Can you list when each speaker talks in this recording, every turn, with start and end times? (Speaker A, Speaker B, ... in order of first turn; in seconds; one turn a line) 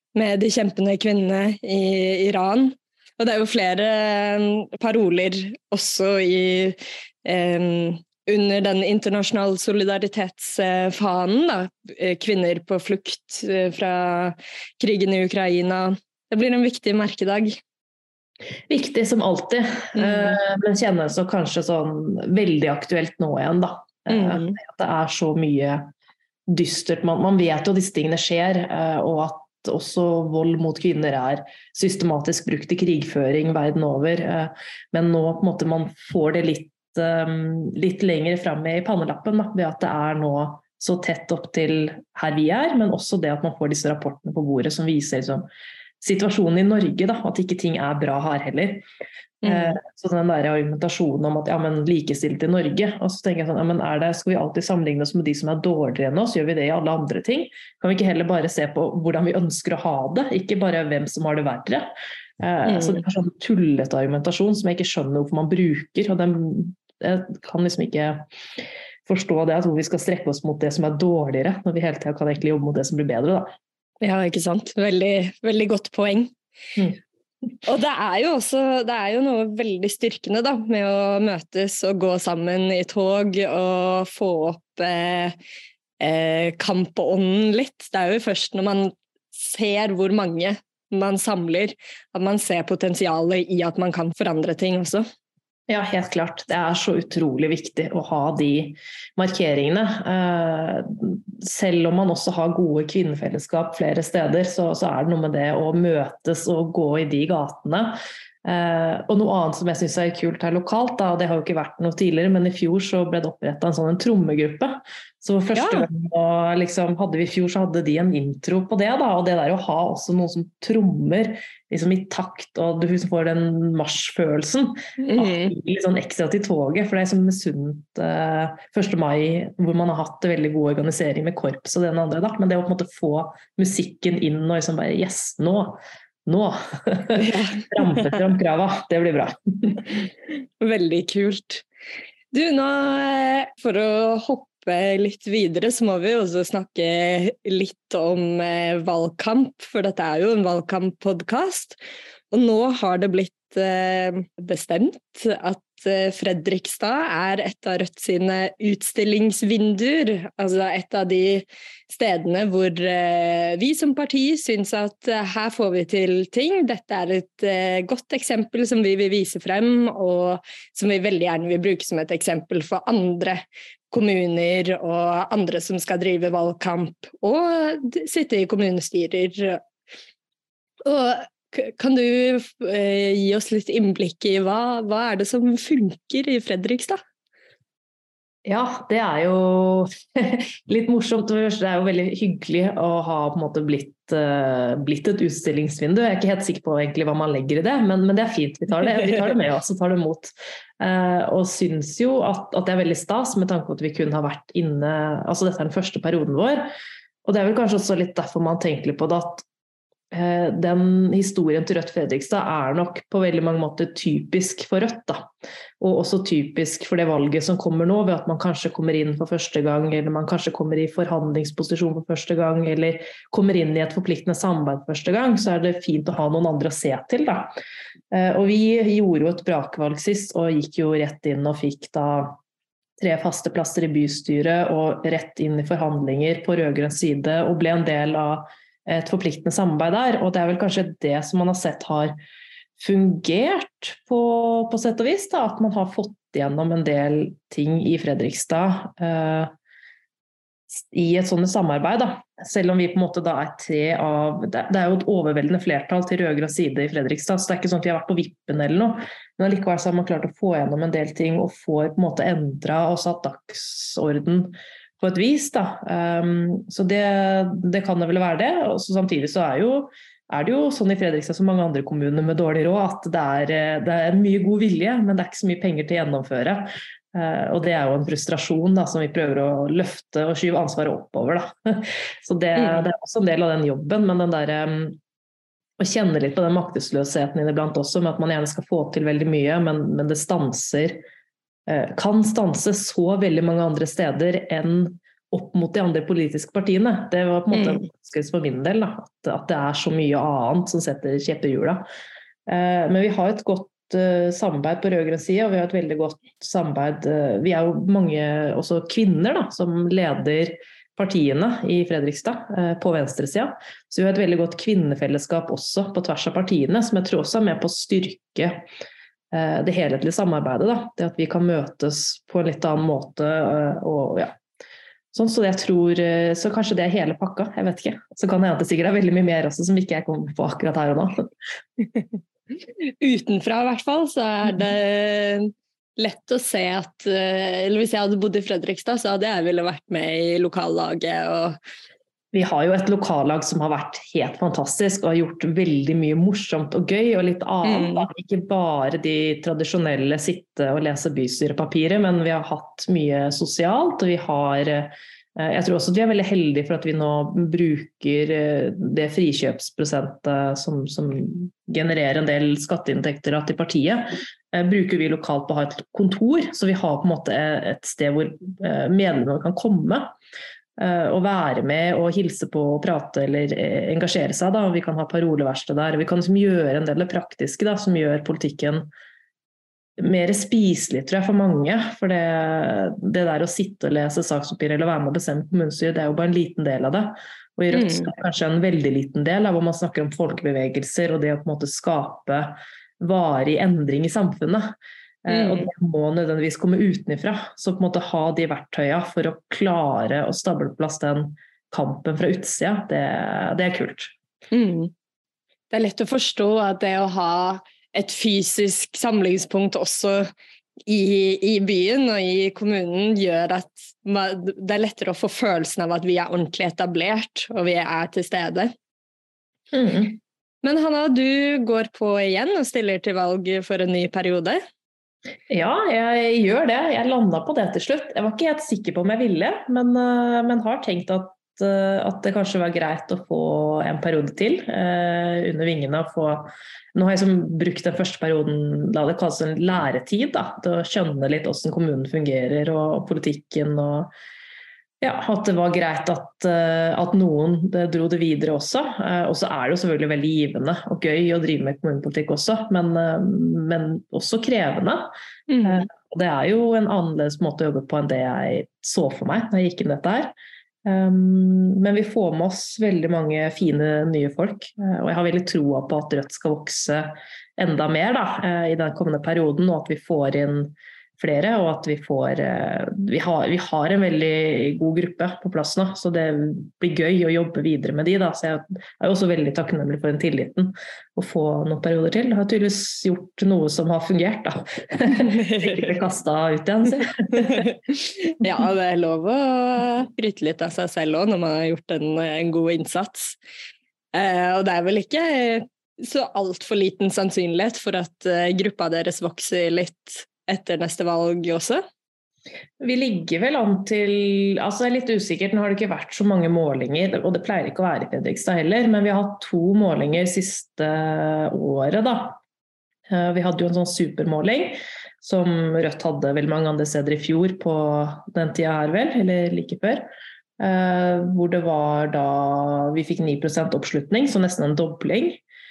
Speaker A: 0.1-17.6
Speaker B: 18.7-25.9
Speaker A: 19.9-20.4
Speaker A: 24.1-24.6
Speaker B: 26.5-45.5
Speaker B: 46.0-48.8
Speaker A: 49.4-49.8
Speaker B: 49.4-68.2
Speaker A: 62.6-63.0
Speaker B: 69.0-73.5
Speaker A: 74.0-76.3
Speaker A: 77.7-85.3
Speaker A: 86.0-95.0
Speaker B: 95.7-140.0
Speaker A: 115.5-115.9
Speaker A: 125.0-125.5
Speaker A: 137.2-138.1
Speaker A: 140.6-141.6
Speaker A: 142.3-151.8
Speaker A: 152.3-179.6
Speaker A: 180.8-187.0
Speaker B: 188.4-206.7
Speaker B: 207.2-209.4
Speaker B: 210.1-215.3
Speaker B: 215.8-227.5
Speaker B: 228.1-232.3
Speaker B: 233.0-242.1
Speaker B: 242.8-249.5
Speaker B: 250.7-285.0
Speaker A: 282.6-282.9
Speaker B: 285.8-291.0
Speaker B: 291.7-301.8
Speaker A: 297.5-297.8
Speaker B: 302.5-318.6
Speaker B: 319.3-324.3
Speaker B: 325.1-331.2
Speaker A: 333.0-341.6
Speaker B: 342.3-370.1
Speaker A: 347.6-348.1
Speaker B: 370.8-378.9
Speaker B: 380.0-404.1
Speaker A: 387.7-388.1
Speaker A: 395.3-395.7
Speaker A: 404.5-404.9
Speaker A: 405.7-410.3
Speaker A: 410.9-418.7
Speaker B: 419.7-420.2
Speaker A: 420.6-424.6
Speaker B: 425.5-444.1
Speaker B: 445.0-455.1
Speaker A: 455.5-455.9
Speaker B: 455.6-460.3
Speaker B: 460.8-487.7
Speaker A: 485.1-485.9
Speaker A: 487.3-493.4
Speaker A: 494.1-501.8
Speaker B: 502.8-512.4
Speaker B: 513.1-520.1
Speaker B: 520.6-525.4